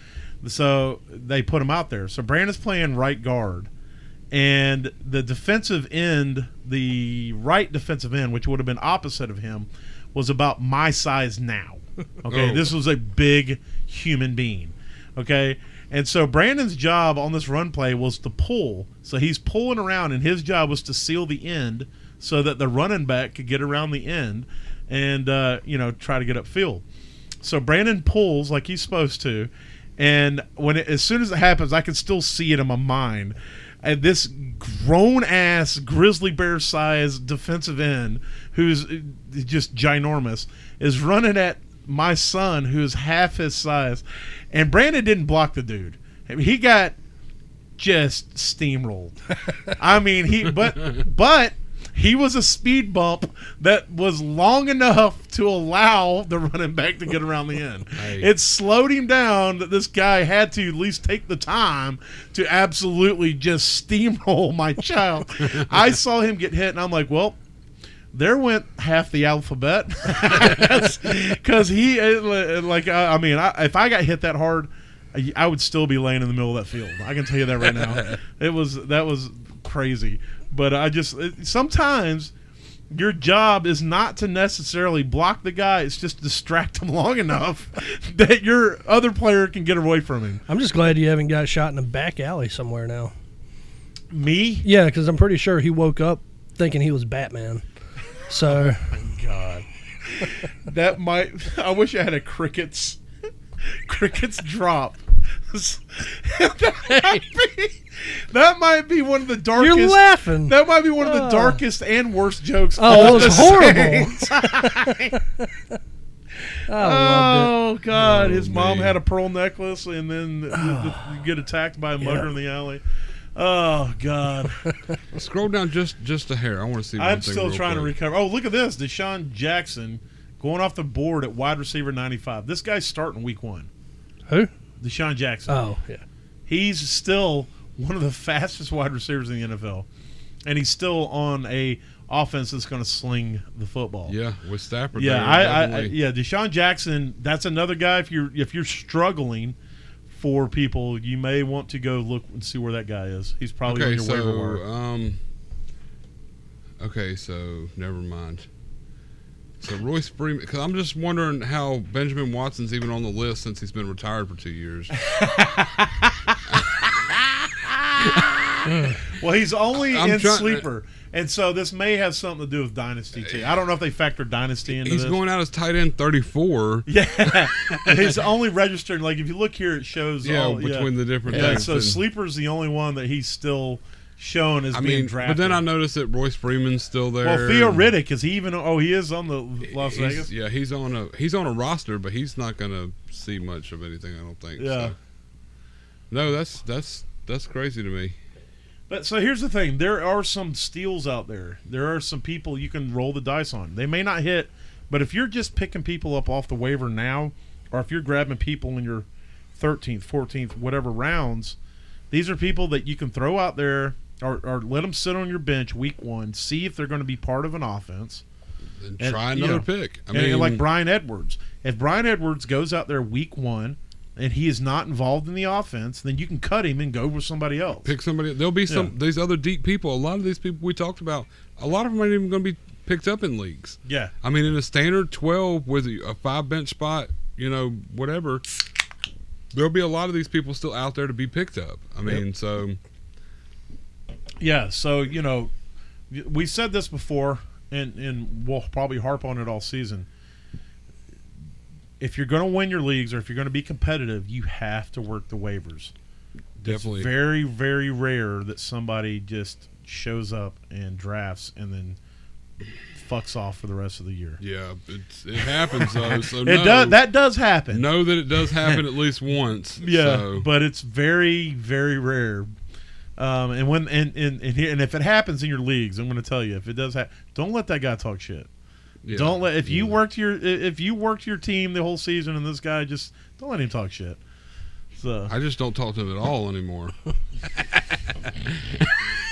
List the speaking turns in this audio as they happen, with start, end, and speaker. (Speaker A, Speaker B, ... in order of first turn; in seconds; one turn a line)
Speaker A: 0.4-3.7
Speaker A: 4.3-26.8
Speaker B: 12.3-12.7
Speaker A: 27.4-47.0
Speaker A: 47.8-67.4
Speaker B: 58.0-58.3
Speaker A: 68.1-82.3
Speaker A: 82.9-90.4
Speaker C: 90.5-93.1
Speaker A: 94.1-94.7
Speaker C: 94.6-97.6
Speaker C: 98.3-98.9
Speaker A: 98.4-103.0
Speaker A: 103.7-115.2
Speaker C: 109.6-111.6
Speaker C: 112.8-115.5
Speaker C: 116.7-117.5
Speaker A: 116.7-122.8
Speaker B: 117.9-119.0
Speaker C: 120.7-121.0
Speaker C: 122.0-122.3
Speaker A: 123.3-124.7
Speaker B: 125.1-127.9
Speaker A: 127.0-133.7
Speaker A: 134.8-135.6
Speaker C: 135.5-136.0
Speaker A: 136.5-139.9
Speaker A: 140.4-144.1
Speaker B: 144.1-145.9
Speaker A: 144.9-149.6
Speaker A: 150.1-154.6
Speaker B: 153.7-155.2
Speaker B: 156.8-158.5
Speaker B: 159.6-164.9
Speaker A: 165.0-166.3
Speaker A: 167.5-175.2
Speaker C: 168.7-169.0
Speaker B: 169.9-170.6
Speaker B: 174.7-178.2
Speaker A: 176.9-185.6
Speaker B: 180.2-182.0
Speaker C: 181.3-181.6
Speaker B: 184.7-187.9
Speaker A: 187.2-190.3
Speaker B: 189.6-194.9
Speaker A: 194.6-194.9
Speaker B: 196.1-198.2
Speaker A: 198.9-211.6
Speaker A: 212.1-218.2
Speaker B: 218.8-220.6
Speaker A: 219.0-227.9
Speaker B: 227.8-238.4
Speaker A: 233.8-234.1
Speaker B: 239.5-242.8
Speaker A: 244.4-245.5
Speaker A: 246.1-250.1
Speaker A: 252.0-255.9
Speaker B: 256.6-257.1
Speaker A: 256.6-262.0
Speaker A: 262.9-264.4
Speaker B: 264.4-267.0
Speaker A: 265.4-267.9
Speaker B: 267.7-270.4
Speaker A: 269.8-272.5
Speaker A: 273.2-278.5
Speaker B: 279.0-280.0
Speaker A: 279.1-284.2
Speaker A: 284.9-285.3
Speaker B: 285.3-286.9